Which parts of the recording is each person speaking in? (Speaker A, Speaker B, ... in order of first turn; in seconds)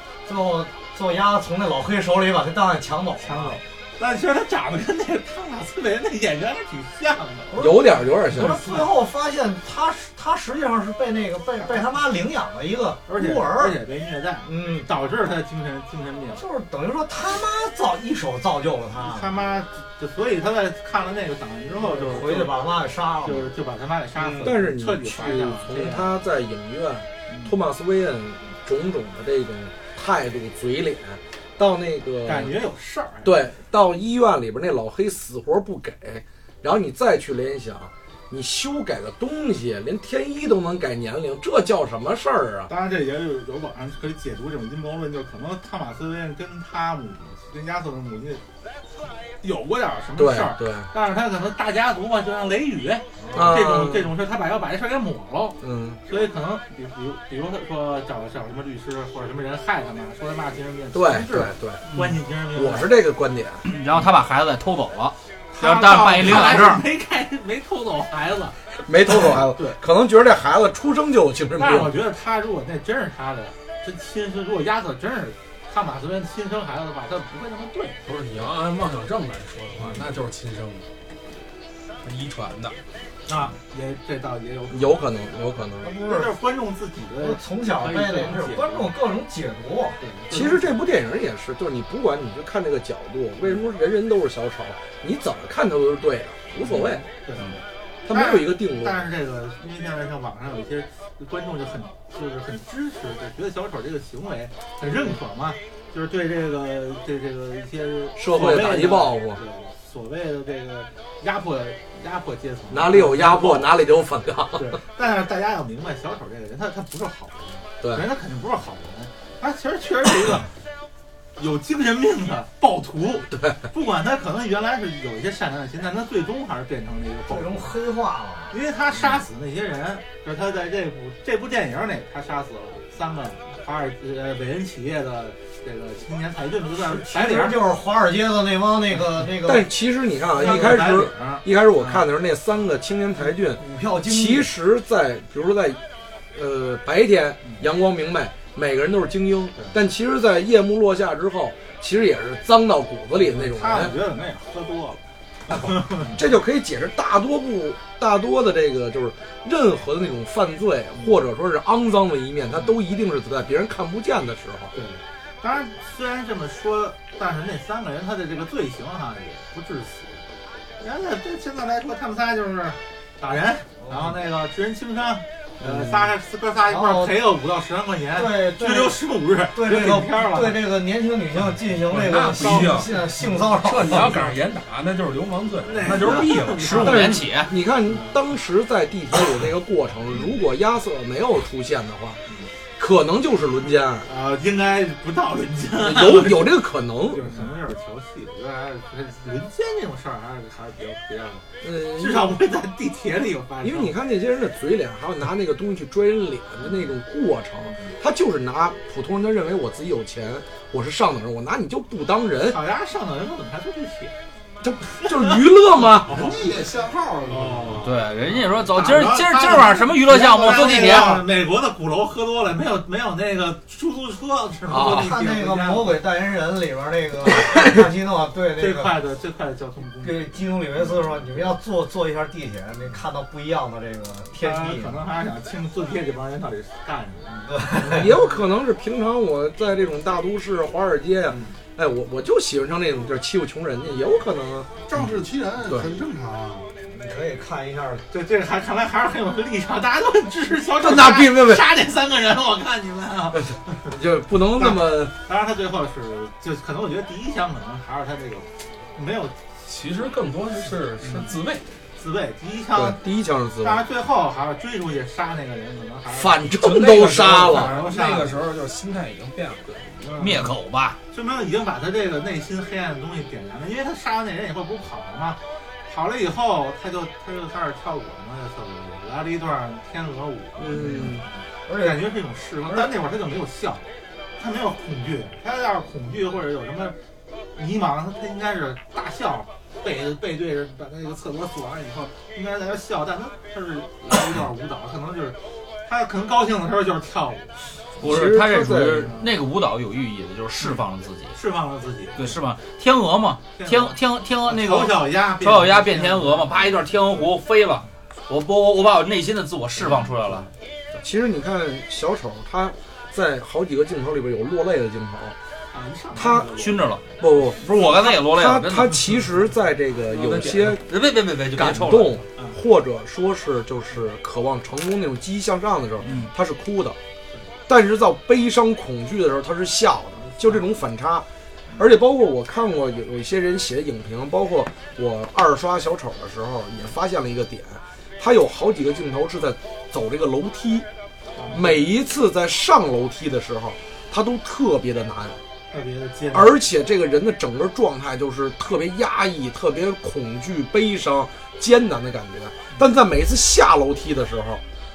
Speaker A: 0.2-3.6, 7.5-13.8, 14.4-14.9, 16.4-19.4, 21.8-23.5, 24.2-24.6, 53.2-53.7, 85.8-86.3, 87.2-90.0, 127.3-128.5, 136.8-139.7, 143.6-144.5, 173.8-174.2, 176.7-177.2, 178.1-184.3, 224.7-228.9, 230.0-235.1, 237.5-238.1, 246.9-248.0, 280.7-282.1
Speaker B: 3.2-7.7, 8.4-8.9, 11.6-11.8, 13.1-16.4, 19.0-22.7, 23.2-26.1, 27.3-27.6, 32.2-33.4, 42.7-48.4, 49.4-62.9, 65.5-68.6, 69.1-69.8, 71.6-78.0, 79.8-80.0, 83.3-85.0, 86.0-88.9, 90.0-90.7, 96.6-113.7, 114.5-120.5, 121.4-127.7, 128.5-137.6, 140.3-142.1, 153.1-156.2, 164.7-170.2, 170.8-180.6, 185.6-187.2, 187.9-188.2, 194.1-203.9, 212.4-214.1, 215.0-216.7, 217.3-226.0, 228.6-231.5, 234.3-238.1, 241.3-241.6, 248.1-253.9, 254.6-259.4, 261.0-261.4, 262.0-263.0, 263.6-268.4, 270.0-270.4, 271.1-283.9, 284.4-286.9, 287.6-297.6, 299.1-299.3, 301.3-302.3, 303.6-306.7, 315.7-316.8, 341.4-341.9, 345.7-346.6
Speaker C: 7.6-8.7, 24.4-32.6, 33.2-42.7, 50.2-50.9, 53.3-54.1, 55.6-56.0, 60.9-61.8, 62.5-63.6, 66.2-66.5, 68.8-72.0, 84.7-85.9, 90.3-97.0, 98.0-99.1, 108.2-109.4, 112.7-114.8, 123.3-123.6, 139.4-145.8, 146.3-153.9, 155.5-164.7, 175.6-175.9, 186.8-192.2, 192.8-194.1, 195.8-197.5, 201.6-202.4, 203.6-212.6, 214.6-216.3, 224.7-225.1, 237.8-245.1, 245.6-245.9, 250.8-251.6, 253.4-255.1, 262.7-263.8, 266.1-267.8, 280.6-281.2, 298.0-299.1, 311.0-315.4, 316.1-316.5, 317.2-320.8, 321.5-327.0, 327.7-331.2, 331.8-340.9, 341.5-345.4, 346.3-354.6
Speaker D: 63.6-66.8, 186.6-187.5, 217.8-221.2, 270.2-271.0, 298.0-301.4, 302.1-310.5, 316.6-317.0, 317.6-319.2, 320.1-322.2, 326.0-326.3
Speaker E: 78.0-80.9, 82.0-82.7, 181.8-187.1, 259.6-261.6, 266.6-270.1
Speaker F: 216.2-217.8, 244.9-246.7